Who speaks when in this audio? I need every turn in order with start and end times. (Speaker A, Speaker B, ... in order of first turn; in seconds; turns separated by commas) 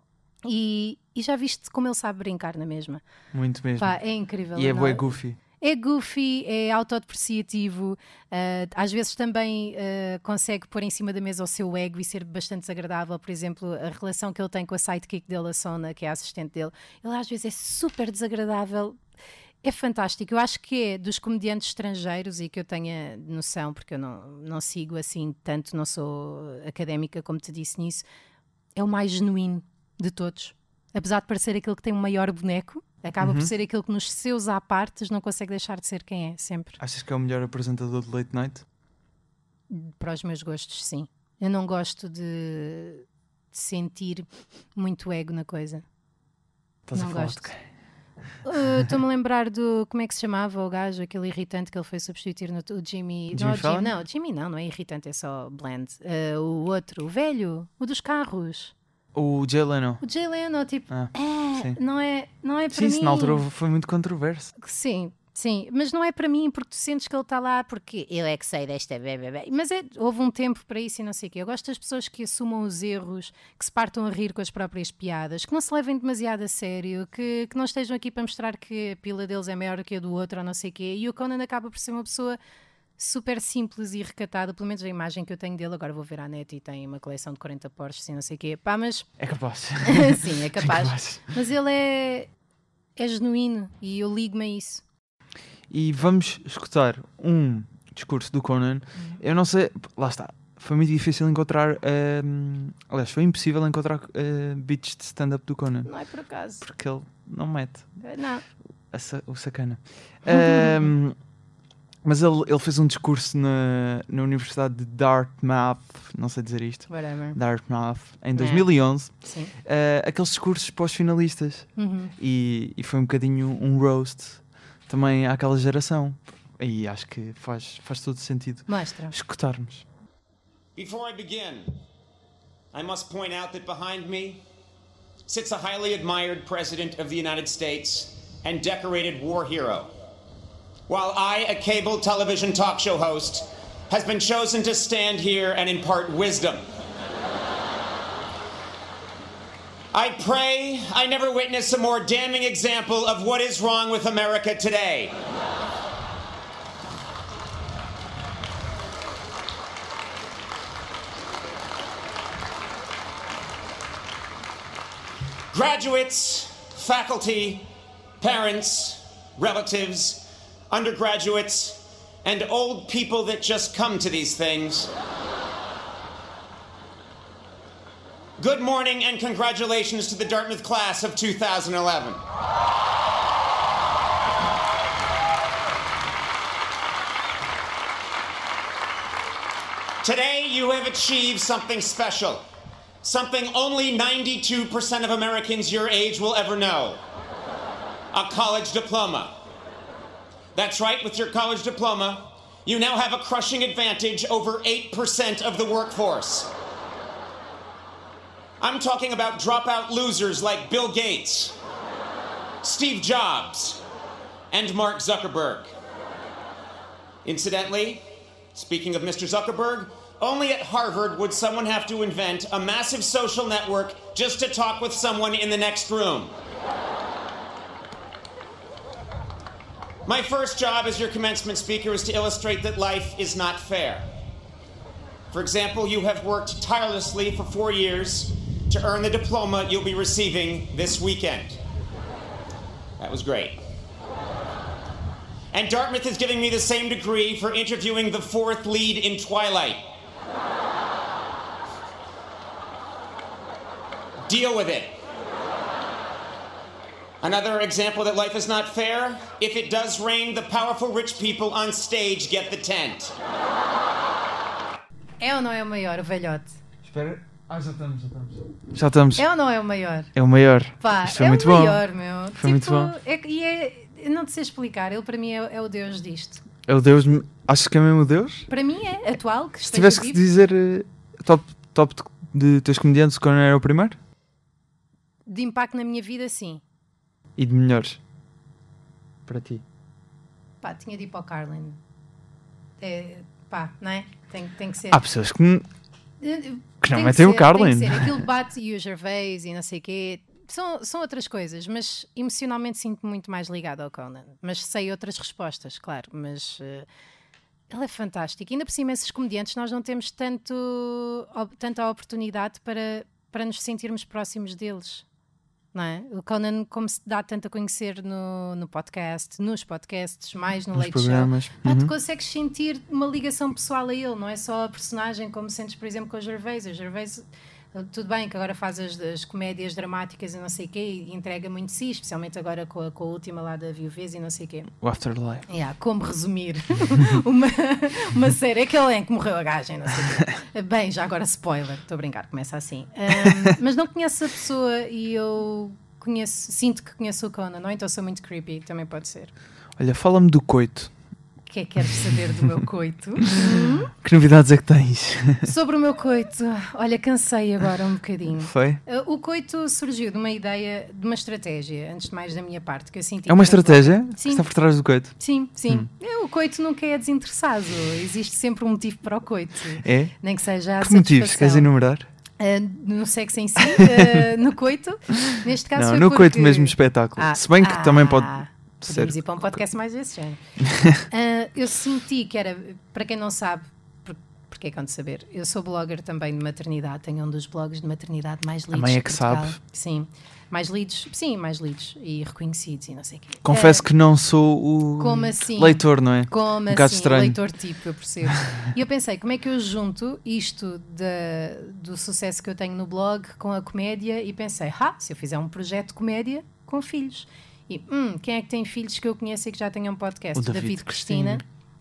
Speaker A: 0.4-3.0, Speaker B: 3.3-4.0, Speaker A: 3.8-5.1, Speaker B: 4.5-5.4, Speaker A: 5.6-19.0, Speaker A: 19.6-28.0, Speaker A: 28.8-36.8, Speaker B: 33.2-33.5, Speaker B: 36.8-38.6, Speaker A: 39.7-45.8, Speaker B: 46.9-47.6, Speaker A: 46.9-47.5, Speaker A: 48.4-58.7, Speaker B: 53.3-53.9, Speaker B: 59.1-60.0, Speaker A: 60.0-63.4, Speaker B: 60.9-61.8, Speaker B: 62.7-64.5, Speaker A: 64.6-82.4, Speaker A: 83.0-89.1, Speaker B: 89.2-91.3, Speaker A: 89.8-92.3, Speaker A: 93.0-94.8, Speaker B: 95.7-105.9, Speaker A: 105.8-106.6, Speaker B: 106.6-107.9, Speaker A: 108.0-108.4, Speaker B: 108.9-111.2, Speaker A: 110.2-110.9, Speaker B: 112.0-119.1, Speaker A: 116.9-117.4, Speaker A: 118.3-118.7, Speaker A: 119.2-119.5, Speaker B: 119.6-129.8, Speaker A: 121.8-122.1, Speaker A: 128.7-129.1, Speaker C: 130.8-131.7, Speaker C: 132.7-134.4, Speaker C: 135.2-139.9, Speaker C: 140.9-146.6, Speaker C: 149.9-155.1, Speaker C: 165.5-167.7, Speaker C: 168.2-174.9, Speaker C: 178.4-182.2, Speaker C: 190.0-192.4, Speaker C: 193.0-197.0, Speaker C: 198.1-199.3, Speaker C: 200.5-206.5, Speaker C: 208.6-211.5, Speaker C: 212.6-213.8, Speaker C: 214.5-215.7, Speaker C: 217.2-218.0, Speaker C: 218.5-226.3, Speaker C: 230.1-234.1, Speaker C: 235.3-241.6, Speaker C: 243.0-243.6, Speaker C: 245.5-249.8, Speaker C: 254.3-254.9, Speaker C: 257.2-263.1, Speaker A: 265.2-266.6, Speaker B: 266.8-269.2, Speaker A: 269.1-270.1, Speaker B: 270.1-271.8, Speaker A: 270.8-276.4, Speaker B: 272.4-272.9, Speaker B: 276.6-278.5, Speaker A: 278.5-280.2, Speaker B: 279.6-284.0, Speaker A: 285.3-286.6, Speaker B: 287.4-288.0, Speaker B: 289.3-289.6, Speaker A: 290.6-291.8, Speaker A: 292.8-295.0, Speaker B: 294.9-295.6, Speaker A: 296.2-306.9, Speaker B: 296.8-298.2, Speaker A: 307.7-315.0, Speaker A: 315.7-334.7, Speaker B: 320.7-321.9, Speaker B: 334.8-335.4, Speaker A: 335.5-349.3, Speaker B: 349.8-350.9, Speaker A: 351.5-353.9, Speaker B: 353.2-355.5, Speaker A: 355.4-364.5, Speaker B: 358.4-358.8, Speaker B: 363.3-365.1, Speaker A: 365.1-371.7, Speaker B: 369.8-370.1, Speaker B: 370.8-372.1, Speaker A: 372.4-380.4, Speaker B: 373.8-374.1, Speaker B: 375.7-379.2, Speaker B: 380.6-381.0, Speaker A: 381.0-393.9, Speaker B: 388.7-389.6, Speaker B: 393.4-397.4, Speaker A: 395.0-411.4, Speaker B: 410.3-411.4